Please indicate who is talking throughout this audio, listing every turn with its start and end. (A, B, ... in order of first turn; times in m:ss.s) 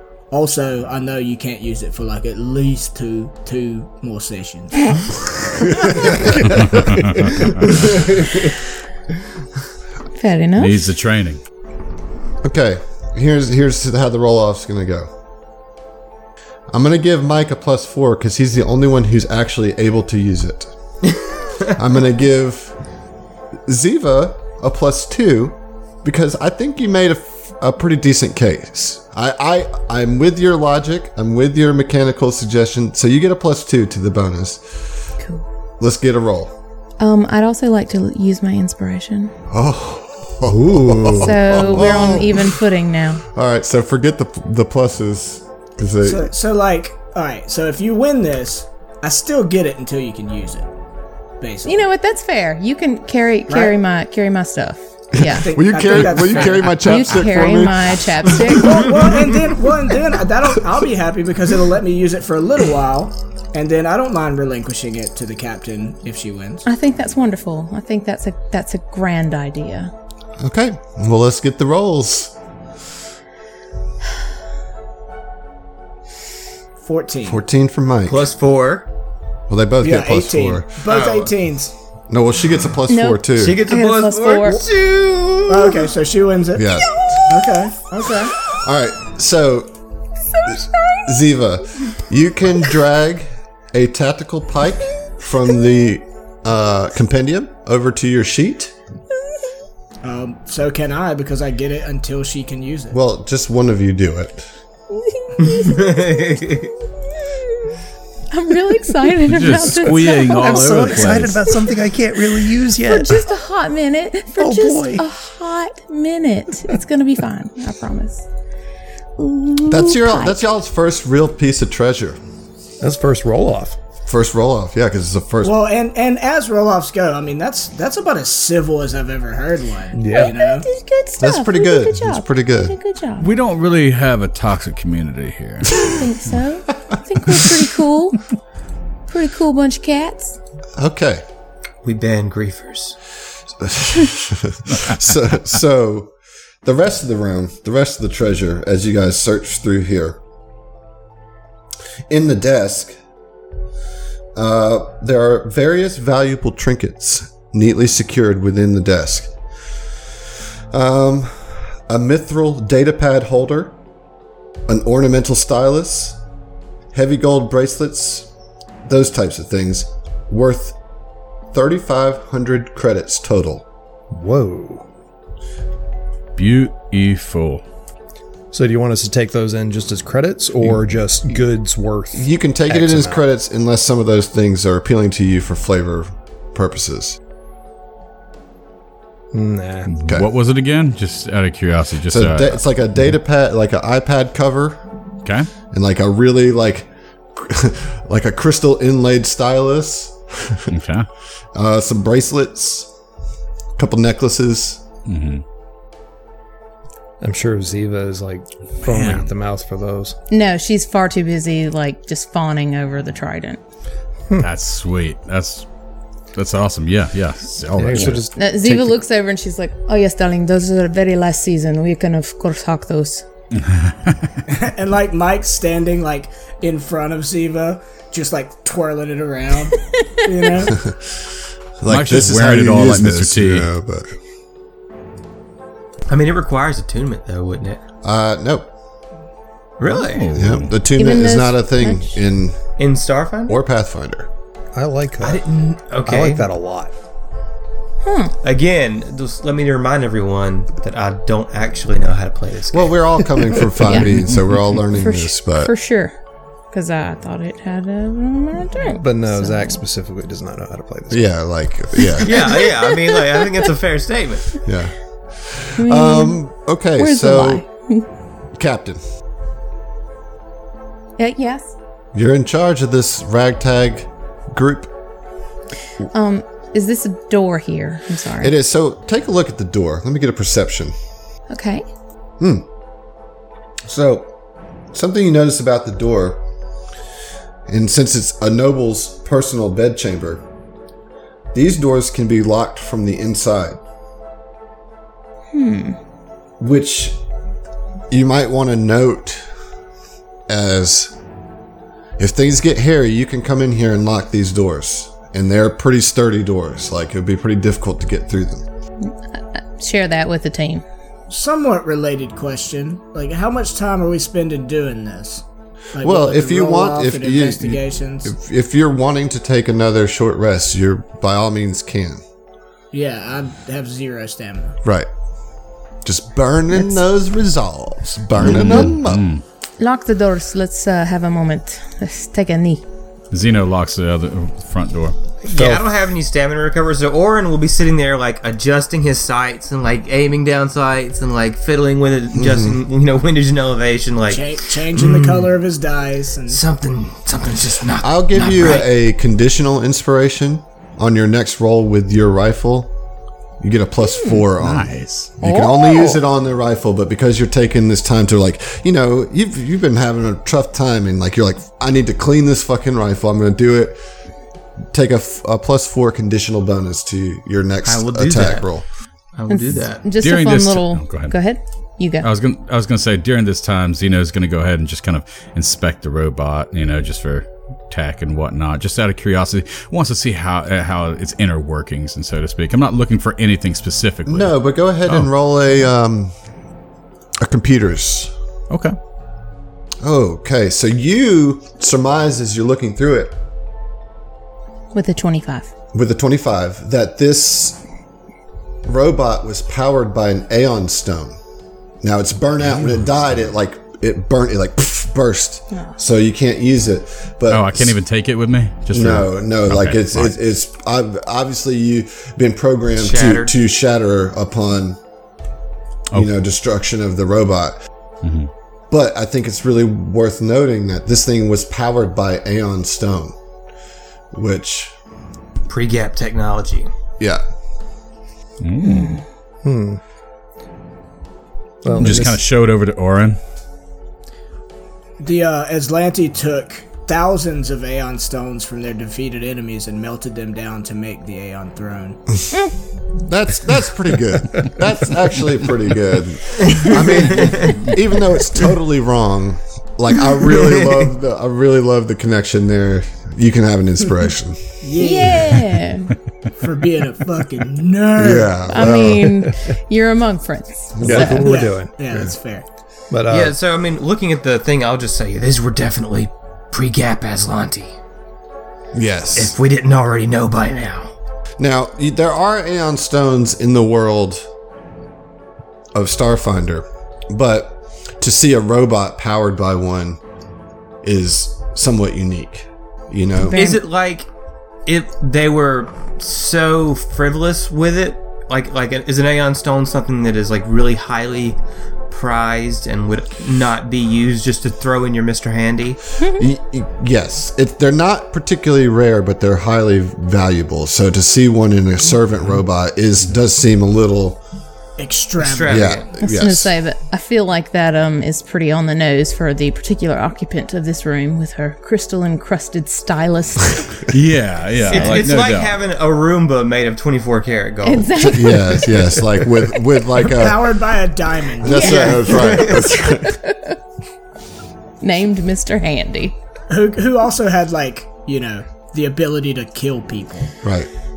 0:00.3-0:06.4 A
0:05.6-0:08.6 B
0:06.4-0:07.5 C
0:10.1-0:10.8 D
0:10.6-0:11.4 C
0:12.4-0:15.1 B
0:16.7-0:20.7 B
0:21.6-0:22.7 B
0:23.6-0:34.6 B
0:35.8-0:36.5 B
0:37.0-0:39.3 D
0:39.5-0:42.6 B
0:40.4-0:41.9 E
0:41.2-0:43.2 D
0:43.3-0:46.3 B
0:46.0-0:50.7 A
0:51.4-0:51.8 A
0:51.6-0:55.5 D
0:53.5-0:53.8 A
0:55.2-0:58.8 B
0:55.3-0:57.0 A
0:56.6-0:58.9 D
0:58.5-1:06.6 A
1:06.6-1:09.9 D
1:10.4-1:12.3 B
1:16.8-1:17.4 A
1:17.2-1:18.3 B
1:18.0-1:18.9 F
1:19.5-1:20.7 B
1:19.8-1:21.7 A
1:20.8-1:21.3 F
1:22.1-1:23.6 B
1:22.9-1:24.6 D
1:23.4-1:25.9 F
1:25.5-1:26.7 A
1:26.5-1:27.2 B
1:27.3-1:28.3 A
1:28.5-1:29.7 B
1:30.4-1:31.2 D
1:30.4-1:38.7 B
1:40.0-1:43.0 A
1:42.9-1:44.4 B
1:44.9-1:46.6 D
1:45.4-1:46.7 F
1:47.3-1:47.7 D
1:48.3-1:51.5 D
1:49.2-1:51.5 C
1:50.0-1:53.2 E
1:52.8-1:58.2 D
1:54.4-1:55.1 E
1:59.2-2:00.4 D
1:59.7-2:02.2 B
2:02.8-2:03.8 E
2:04.0-2:05.6 B
2:05.4-2:10.7 A
2:09.9-2:10.3 E
2:10.1-2:13.3 D
2:11.2-2:12.8 B
2:13.2-2:16.0 C
2:15.8-2:18.2 D
2:19.1-2:20.4 D
2:20.8-2:21.2 B
2:21.8-2:23.0 F
2:23.6-2:26.1 B
2:26.6-2:30.2 B
2:32.1-2:32.9 B
2:34.3-2:39.3 B
2:40.7-2:43.8 B
2:44.7-2:46.2 B
2:46.9-2:48.3 B
2:48.8-2:50.8 B
2:51.5-2:53.6 B
2:54.1-2:54.8 E
2:56.4-2:57.6 C
2:58.5-3:03.2 E
3:02.1-3:07.2 B
3:09.3-3:09.9 E
3:09.9-3:12.6 C
3:12.1-3:14.8 B
3:15.2-3:15.5 C
3:15.7-3:20.7 B
3:20.7-3:21.1 C
3:21.5-3:22.9 B
3:23.8-3:24.8 B
3:25.1-3:25.4 C
3:27.2-3:30.2 E
3:28.9-3:29.3 C
3:30.3-3:33.6 D
3:34.4-3:35.6 C
3:36.3-3:38.3 C
3:37.8-3:39.0 E
3:38.4-3:43.2 D
3:43.5-3:44.4 C
3:44.5-3:50.8 A
3:50.7-3:51.1 B
3:51.8-3:54.1 B
3:51.9-3:53.7 C
3:56.1-3:57.8 F
3:58.0-3:58.7 B
3:59.8-4:00.3 F
3:59.9-4:00.7 C
4:00.3-4:02.6 B
4:00.9-4:02.2 D
4:02.8-4:03.6 F
4:03.5-4:04.3 B
4:04.7-4:05.4 E
4:05.2-4:06.5 F
4:06.0-4:06.9 E
4:08.0-4:08.3 D
4:08.4-4:13.6 F
4:12.7-4:15.7 B
4:13.8-4:14.2 D
4:15.0-4:16.1 D
4:16.7-4:19.8 D
4:18.9-4:21.3 E
4:21.1-4:22.5 B
4:22.2-4:24.6 F
4:22.3-4:23.4 D
4:24.6-4:27.6 B
4:25.8-4:26.4 D
4:27.0-4:28.1 D
4:28.6-4:29.0 B
4:31.2-4:31.7 D
4:32.1-4:34.9 B
4:36.1-4:38.5 D
4:38.4-4:40.9 B
4:41.5-4:41.8 D
4:42.4-4:42.6 B
4:43.8-4:44.3 B
4:44.9-4:46.4 B
4:47.7-4:50.4 B
4:51.5-4:53.8 B
4:55.5-4:56.0 D
4:56.6-4:57.2 B
4:58.1-4:59.4 B
5:00.5-5:01.1 B
5:02.2-5:08.6 B
5:09.0-5:10.8 D
5:11.3-5:15.4 A
5:15.9-5:18.3 A
5:16.0-5:22.2 B
5:22.9-5:24.8 A
5:24.8-5:25.1 B
5:26.0-5:29.2 B
5:26.7-5:27.0 D
5:28.4-5:29.4 C
5:28.4-5:28.9 D
5:29.8-5:32.8 D
5:33.3-5:35.2 C
5:35.4-5:45.5 F
5:35.5-5:35.8 E
5:42.3-5:42.8 B
5:44.3-5:46.6 A
5:46.5-5:48.9 F
5:48.0-5:52.9 B
5:53.6-6:04.0 B
5:54.0-5:54.4 D
5:54.6-5:55.3 C
5:55.4-5:56.2 D
6:04.9-6:08.8 B
6:07.8-6:08.7 F
6:09.3-6:10.0 F
6:09.5-6:12.3 D
6:10.2-6:11.3 C
6:12.2-6:24.5 C
6:24.2-6:26.3 B
6:27.4-6:28.3 B
6:28.7-6:29.0 C
6:30.0-6:33.4 B
6:34.9-6:35.7 D
6:35.9-6:37.8 B
6:38.8-6:41.3 B
6:42.0-6:48.0 B
6:47.5-6:50.4 C
6:48.9-6:55.0 B
6:53.0-6:53.5 F
6:56.1-6:57.8 B
6:58.2-6:58.5 C
6:58.9-7:03.3 B
7:04.3-7:04.9 B
7:05.7-7:06.9 F
7:08.6-7:09.2 C
7:08.8-7:09.2 D
7:09.6-7:10.0 E
7:11.8-7:12.4 E
7:12.0-7:13.4 C
7:15.2-7:22.2 A
7:23.2-7:34.6 B
7:26.7-7:27.8 F
7:30.4-7:31.1 F
7:34.8-7:35.5 A
7:35.0-7:36.1 D
7:36.6-7:38.6 A
7:38.2-7:39.4 B
7:38.7-7:41.4 D
7:41.0-7:41.5 B
7:41.0-7:42.0 E
7:41.3-7:42.6 A
7:43.1-7:43.5 E
7:43.3-7:47.9 F
7:48.9-7:49.5 B
7:49.3-7:51.1 F
7:51.6-7:54.4 B
7:55.9-8:00.2 B
8:01.0-8:03.6 B
8:03.4-8:03.8 D
8:03.5-8:04.3 F
8:04.8-8:11.6 F
8:12.1-8:16.0 F
8:16.2-8:16.4 D
8:16.4-8:24.4 B
8:25.0-8:26.0 A
8:25.4-8:26.1 F
8:25.7-8:26.7 B
8:26.2-8:34.0 D
8:34.1-8:35.8 C
8:34.9-8:35.2 D
8:34.9-8:38.1 F
8:37.8-8:39.2 D
8:38.2-8:40.7 B
8:40.2-8:42.2 A
8:41.6-8:43.4 B
8:41.6-8:43.7 D
8:41.7-8:42.8 F
8:45.0-8:46.4 D
8:46.7-8:50.5 A
8:50.6-8:50.9 B